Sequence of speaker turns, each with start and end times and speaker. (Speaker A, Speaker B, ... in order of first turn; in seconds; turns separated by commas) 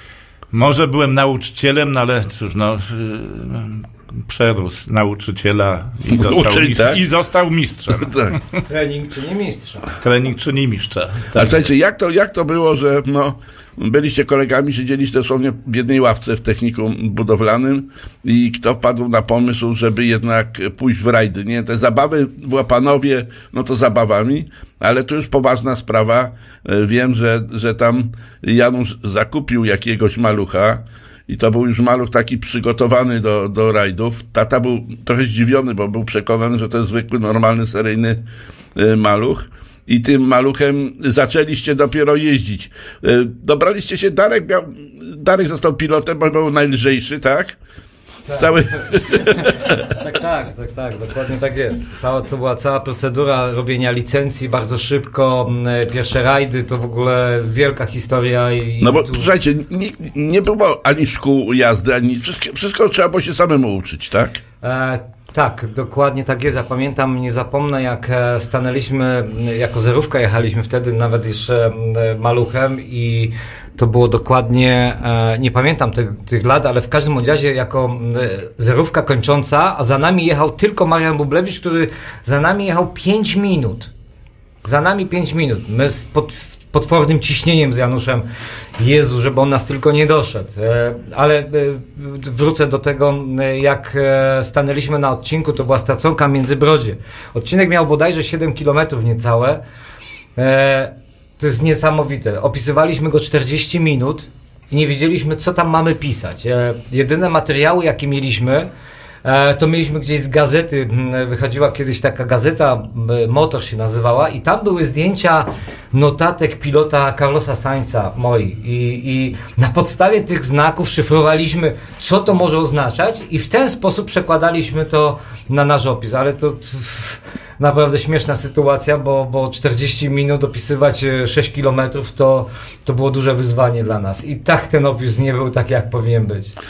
Speaker A: 0.5-8.4, Speaker B: 6.1-7.0, Speaker B: 8.0-8.3, Speaker C: 8.7-9.9, Speaker A: 10.0-11.5, Speaker B: 11.3-38.2, Speaker B: 38.8-47.6, Speaker C: 48.3-59.3, Speaker B: 48.3-49.8, Speaker B: 58.8-64.4, Speaker C: 64.6-83.9, Speaker C: 84.6-88.3, Speaker C: 88.8-99.6, Speaker C: 100.4-108.7, Speaker C: 109.2-136.5